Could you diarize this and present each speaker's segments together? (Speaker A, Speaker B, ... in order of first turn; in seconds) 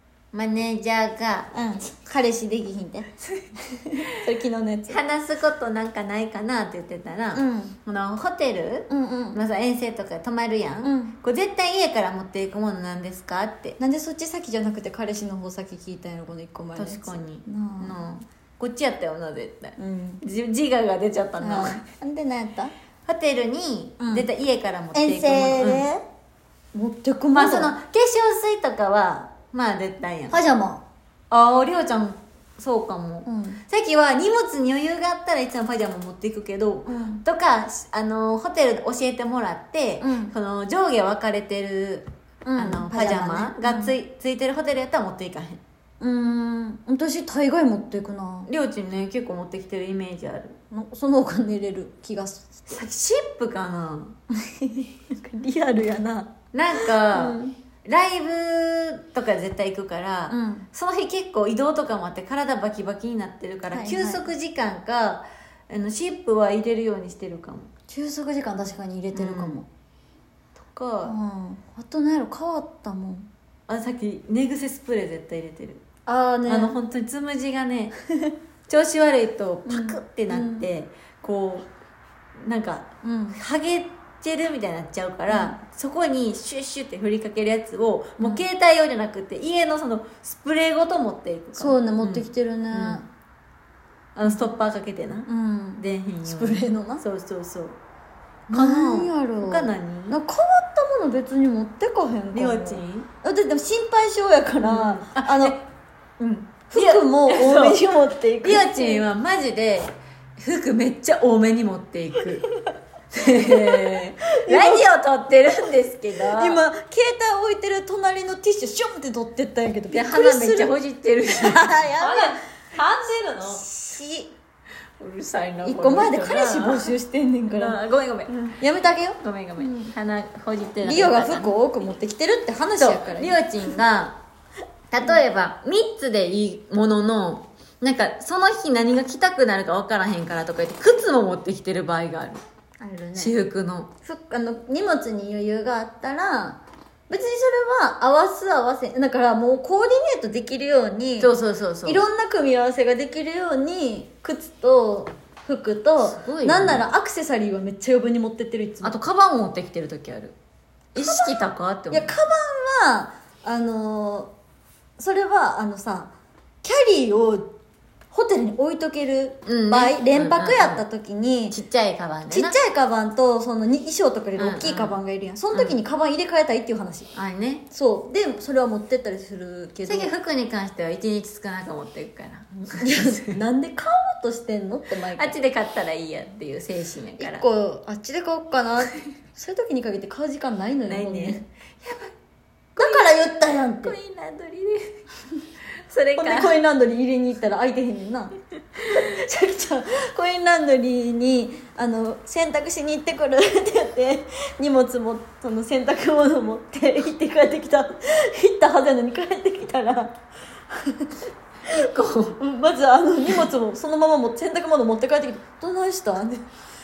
Speaker A: 0.3-1.5, 4.9-13.8, 16.8-21.9, 23.1-25.9, 27.3-30.5, 31.3-45.6, 48.5-50.6, 52.7-54.1, 56.5-67.7, 69.1-69.6, 70.6-71.2, 73.7-75.8, 76.5-78.0, 78.7-81.7, 82.4-93.0, 94.2-97.8, 98.5-100.2, 102.3-103.1, 104.6-105.6, 106.2-107.8, 108.4-112.5, 113.1-116.6, 119.9-122.3, 123.0-123.4, 125.0-127.0, 127.5-128.6, 129.2-131.6, 132.8-134.2, 134.9-142.4, 143.2-143.9, 151.2-152.0, 156.0-156.9, 158.8-160.4, 160.9-162.1, 169.5-170.8, 171.5-172.6, 174.4-175.0, 175.5-175.8, 177.1-177.7, 179.9-183.3, 185.1-187.5, 190.9-192.1, 192.8-194.9, 195.9-196.6, 211.7-212.4
Speaker B: 1.5-5.0, 7.3-7.8, 8.9-9.4, 10.8-11.2, 13.8-18.0, 19.8-20.2, 21.4-22.7, 24.0-24.3, 24.9-26.0, 26.7-27.7, 30.3-30.8, 33.2-33.6, 36.9-37.2, 40.0-40.3, 42.5-44.0, 46.0-48.5, 50.7-52.8, 54.5-57.4, 60.3-60.7, 63.7-64.2, 67.9-69.7, 71.0-73.3, 76.1-76.8, 79.7-80.7, 83.0-83.4, 85.3-85.6, 88.2-88.5, 91.5-93.1, 95.3-97.0, 98.5-105.6, 106.7-109.0, 113.4-114.9, 116.3-120.7, 121.4-122.4, 123.2-124.3, 125.6-127.8, 128.5-129.9, 130.8-133.7, 142.8-143.3, 144.0-151.3, 151.8-159.0, 161.0-161.4, 161.9-164.3, 165.0-167.5, 168.1-171.6, 172.3-177.1, 177.7-180.1, 182.8-185.3, 187.2-191.4, 192.8-194.0, 196.2-210.2, 210.7-211.2, 212.4-216.4